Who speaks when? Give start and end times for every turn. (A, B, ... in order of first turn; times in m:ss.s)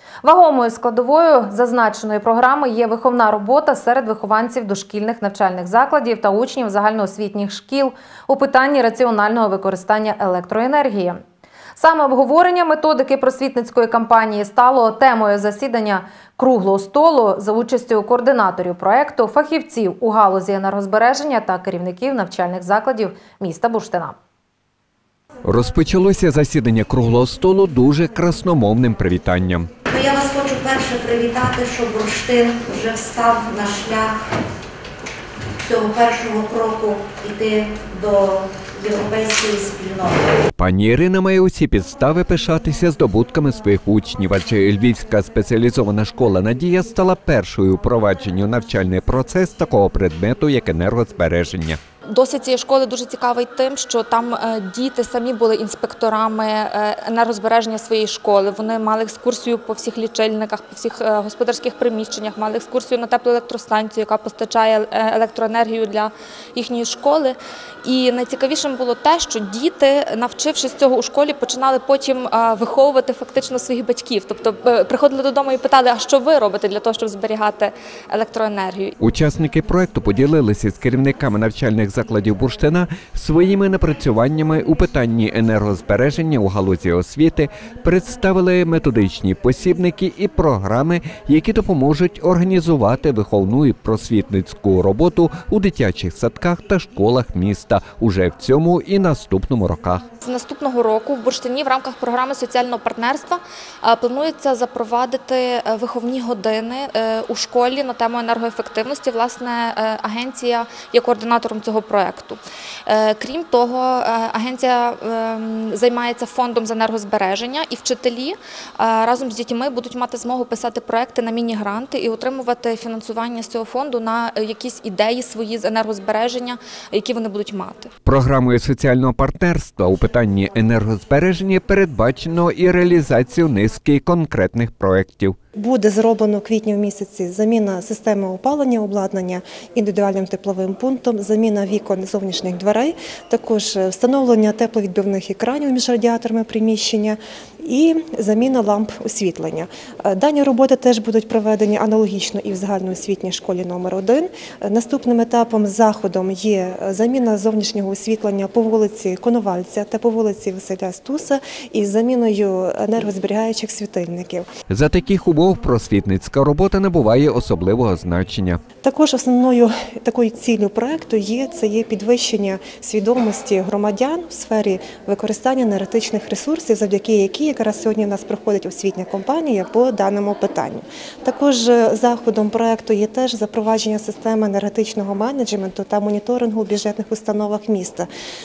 0:00.2-0:11.2 A
0:11.8-0:24.1 A
0:25.4-0:29.7 B
0:29.9-0:34.2 C
0:35.6-0:40.4 C
0:40.5-0:51.8 B
0:52.1-1:18.9 D
1:19.0-1:40.0 B
1:40.2-2:07.9 D
2:08.0-2:15.4 B
2:15.6-2:44.5 E
2:44.7-2:48.6 B
2:48.8-3:08.1 E